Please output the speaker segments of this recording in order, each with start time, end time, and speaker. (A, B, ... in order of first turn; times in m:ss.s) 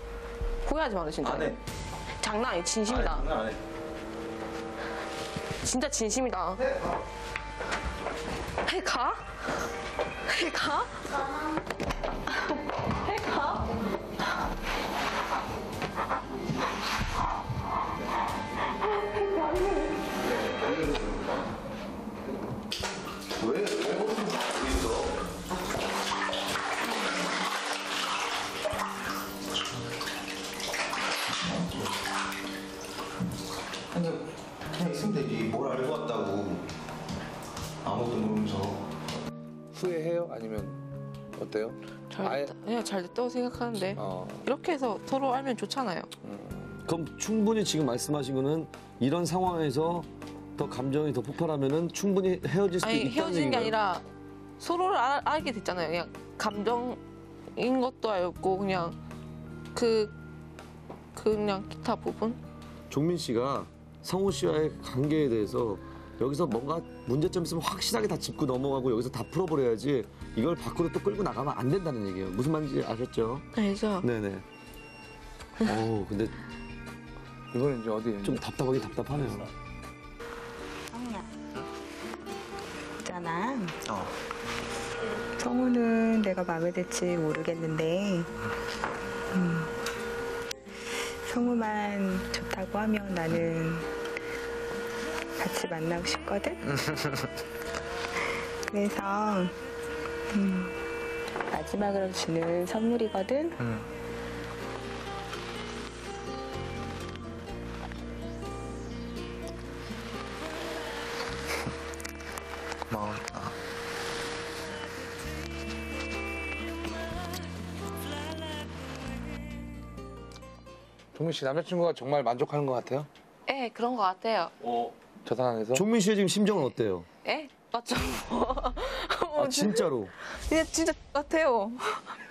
0:00.6-0:01.6 A
0:01.2-0:01.6 B
0:02.2-0:03.2 A
0:02.8-0:03.6 B
0:05.6-0:06.6 A
0:08.6-0:09.6 A
0:10.3-0:11.2 A
0:13.2-0:13.6 A
0:19.2-0:19.7 A
0:23.4-0:25.1 B
0:31.4-0:32.0 B
0:33.9-0:36.6 B
0:37.8-0:38.9 B
0:39.7-0:40.8 C
0:41.3-0:42.5 C
0:42.1-0:46.1 A
0:44.0-0:44.5 C
0:46.2-0:46.8 C
0:46.8-0:53.7 D
0:52.8-0:54.0 A
0:54.6-0:57.0 A
0:57.6-0:59.0 A
0:59.7-1:00.1 A
1:01.1-1:02.4 A
1:02.9-1:13.4 D
1:13.5-1:14.1 A
1:14.0-1:14.4 D
1:15.6-1:16.3 D
1:17.5-1:18.4 C
1:18.2-1:19.5 D
1:20.9-1:21.4 E
1:23.0-1:23.8 E
1:23.9-1:24.1 B
1:25.4-1:28.3 E
1:29.3-1:29.7 E
1:31.2-1:33.9 E
1:35.4-1:36.6 E
1:36.7-1:37.3 B
1:38.7-1:39.5 E
1:40.3-1:40.7 E
1:41.5-1:43.6 E
1:43.6-1:43.9 B
1:52.9-1:53.6 B
2:01.1-2:03.1 C
2:03.5-2:04.5 A
2:04.6-2:04.9 B
2:05.2-2:05.8 C
2:05.7-2:07.1 D
2:07.2-2:12.1 A
2:09.4-2:10.1 D